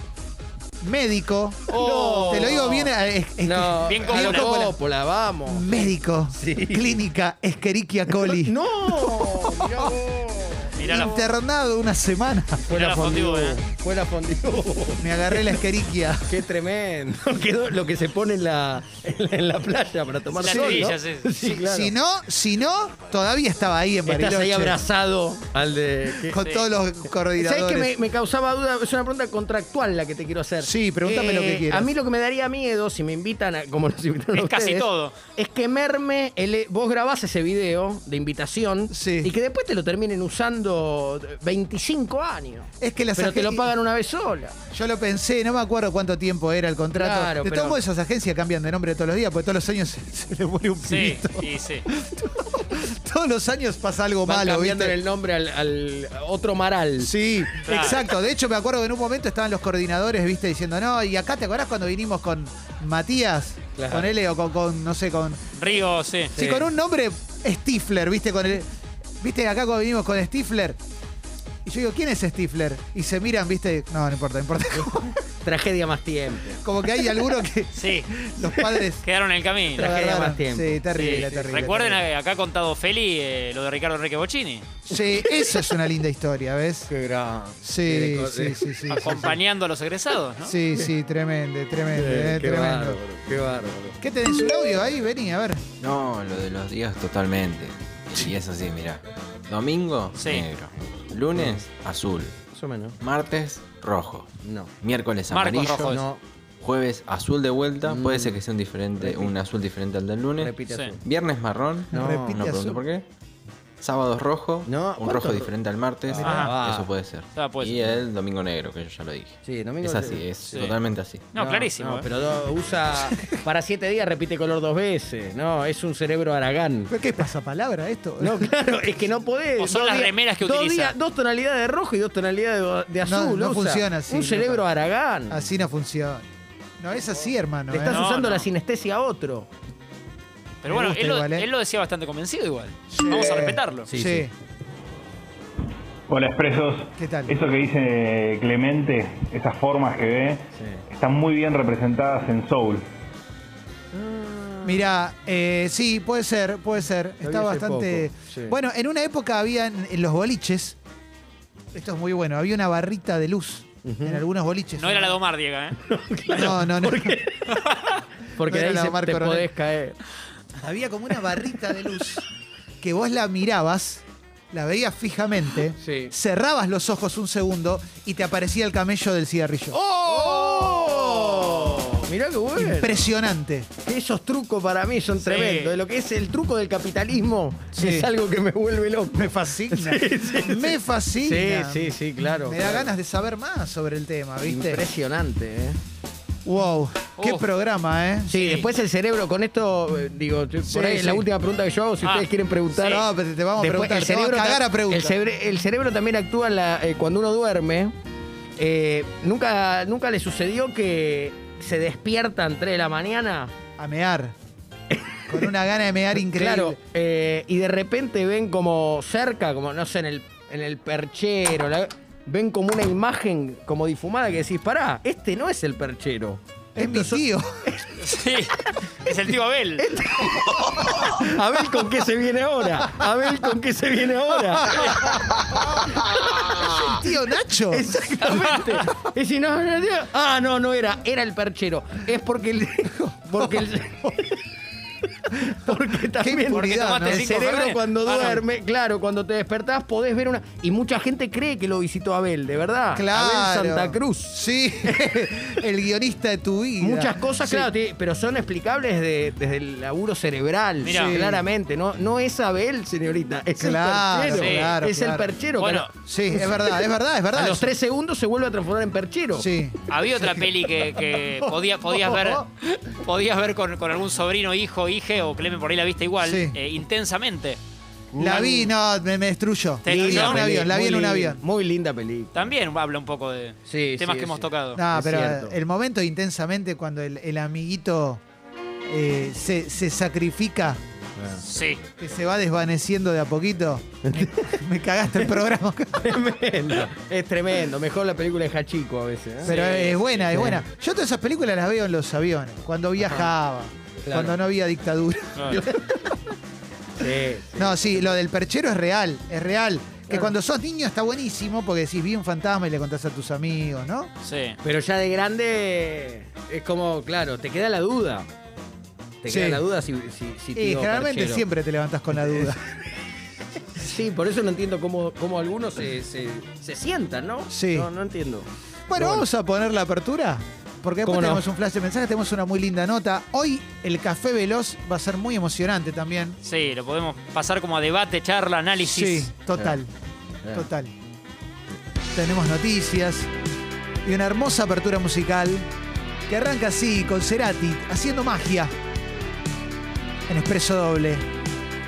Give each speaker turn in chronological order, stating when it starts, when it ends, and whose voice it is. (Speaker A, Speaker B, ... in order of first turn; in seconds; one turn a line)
Speaker A: 0.8-4.8
Speaker B: 1.7-2.9
Speaker C: 1.7-2.6
Speaker B: 3.4-7.0
Speaker C: 3.9-4.6
Speaker A: 5.5-9.9
Speaker B: 8.2-10.8
Speaker C: 10.8-11.3
Speaker A: 10.8-12.7
Speaker C: 12.7-13.6
Speaker B: 12.7-15.6
Speaker A: 15.0-16.4
Speaker B: 16.2-21.9
Speaker C: 20.4-21.3
Speaker A: 20.4-24.8
Speaker B: 24.1-26.4
Speaker A: 26.2-27.9
Speaker C: 26.4-26.6
Speaker B: 27.4-44.5
Speaker A: 30.6-31.9
Speaker C: 34.3-35.1
Speaker A: 38.9-39.3
Speaker A: 42.8-43.7
Speaker A: 44.7-55.0
Speaker B: 47.0-47.8
Speaker C: 50.8-51.8
Speaker B: 54.2-57.1
Speaker A: 57.0-65.5
Speaker C: 57.6-58.0
Speaker B: 63.8-64.1
Speaker C: 65.6-66.3
Speaker A: 66.3-68.7
Speaker B: 66.3-66.7
Speaker A: 69.2-70.8
Speaker A: 71.6-75.2
Speaker B: 75.4-76.6
Speaker A: 76.6-79.0
Speaker C: 77.8-78.1
Speaker C: 79.0-80.0
Speaker B: 79.7-81.6
Speaker A: 79.8-82.0
Speaker C: 80.9-84.7
Speaker A: 84.9-86.9
Speaker B: 84.9-85.4
Speaker B: 86.9-88.7
Speaker A: 87.6-89.4
Speaker C: 88.9-90.6
Speaker A: 90.4-93.0
Speaker B: 91.9-94.0
Speaker A: 94.0-95.6
Speaker D: 95.8-102.4
Speaker C: 100.2-100.5
Speaker B: 101.3-101.6
Speaker B: 102.5-103.0
Speaker D: 103.0-106.0
Speaker B: 104.4-104.7
Speaker C: 105.3-106.0
Speaker B: 105.8-106.2
Speaker D: 106.6-113.0
Speaker B: 107.8-108.4
Speaker B: 109.0-109.3
Speaker B: 110.4-111.0
Speaker C: 110.7-110.9
Speaker B: 111.9-112.5
Speaker A: 111.9-112.8
Speaker D: 113.8-121.2
Speaker B: 114.7-115.5
Speaker B: 116.1-116.9
Speaker A: 116.2-116.5
Speaker C: 116.2-116.5
Speaker C: 117.3-117.9
Speaker B: 119.4-120.2
Speaker C: 120.5-120.8
Speaker C: 121.3-122.1
Speaker B: 121.3-126.9
Speaker A: 123.1-123.4
Speaker A: 126.9-128.7
Speaker B: 128.2-135.4
Speaker C: 129.6-130.9
Speaker A: 133.0-134.7
Speaker A: 135.3-136.3
Speaker A: 136.8-138.1
Speaker B: 137.7-139.5
Speaker C: 137.9-138.5
Speaker C: 140.6-143.9
Speaker A: 140.7-141.5
Speaker A: 142.9-144.3
Speaker B: 143.9-144.3
Speaker E: 146.1-152.8
Speaker A: 147.0-147.3
Speaker B: 150.6-150.8
Speaker B: 153.9-154.9
Speaker A: 154.6-160.8
Speaker B: 157.2-158.6
Speaker A: 161.7-165.2
Speaker B: 163.8-164.2
Speaker C: 164.8-165.8
Speaker B: 165.8-167.6
Speaker A: 166.3-167.2
Speaker C: 167.5-168.0
Speaker B: 168.3-170.0
Speaker A: 168.4-169.5
Speaker A: 170.6-172.2
Speaker A: 172.8-179.8
Speaker B: 175.8-176.1
Speaker B: 179.7-183.1
Speaker A: 180.3-181.5
Speaker A: 182.6-183.7
Speaker B: 183.8-192.9
Speaker C: 185.2-185.7
Speaker A: 187.7-188.1
Speaker A: 189.1-194.8
Speaker B: 194.4-195.8
Speaker A: 196.4-198.3
Speaker C: 197.2-197.4
Speaker B: 198.3-203.0
Speaker C: 198.3-198.7
Speaker A: 200.7-201.3
Speaker C: 202.0-203.1
Speaker A: 202.8-205.2
Speaker B: 203.6-207.9
Speaker B: 208.6-213.5
Speaker A: 213.8-214.3
Speaker B: 214.9-215.5
Speaker A: 215.3-216.8
Speaker B: 216.2-227.9
Speaker A: 226.8-227.6
Speaker C: 228.0-229.9
Speaker B: 229.8-235.2
Speaker A: 230.9-231.4
Speaker A: 233.0-233.5
Speaker A: 234.5-238.2
Speaker B: 235.8-237.0
Speaker B: 237.7-244.4
Speaker A: 243.0-244.1
Speaker B: 245.3-255.3
Speaker A: 246.1-247.3
Speaker C: 246.5-248.4
Speaker A: 252.9-257.7
Speaker B: 256.8-266.8
Speaker C: 260.8-261.2
Speaker A: 260.9-261.4
Speaker A: 263.6-265.3
Speaker C: 264.3-264.7
Speaker C: 265.6-265.9
Speaker A: 266.0-267.7
Speaker B: 267.3-269.5
Speaker A: 269.4-270.3
Speaker C: 269.9-277.6
Speaker A: 271.4-272.4
Speaker A: 276.2-276.6
Speaker B: 278.1-278.7
Speaker A: 278.2-281.4
Speaker C: 279.8-280.6
Speaker B: 279.9-282.5
Speaker C: 282.3-284.8
Speaker B: 283.7-285.6
Speaker A: 284.8-288.2
Speaker A: 288.9-290.8
Speaker B: 291.2-291.4
Speaker C: 291.4-291.8
Speaker A: 292.0-296.2
Speaker B: 294.0-294.6
Speaker B: 296.0-300.6
Speaker A: 299.4-305.6
Speaker C: 299.4-300.1
Speaker B: 303.0-303.3
Speaker B: 304.0-304.4
Speaker C: 305.4-305.6
Speaker B: 305.5-306.2
Speaker B: 307.0-308.1
Speaker A: 307.6-314.1
Speaker C: 314.2-314.6
Speaker B: 314.6-318.3
Speaker B: 319.2-321.4
Speaker A: 319.3-319.6
Speaker A: 320.5-322.7
Speaker B: 322.1-322.5
Speaker B: 323.7-329.2
Speaker A: 327.5-327.9
Speaker A: 328.9-336.4
Speaker B: 331.0-331.4
Speaker C: 336.4-339.3
Speaker A: 338.8-339.9
Speaker A: 340.5-340.9
Speaker A: 342.1-343.3
Speaker A: 344.0-345.7
Speaker A: 346.3-348.7
Speaker A: 350.3-351.2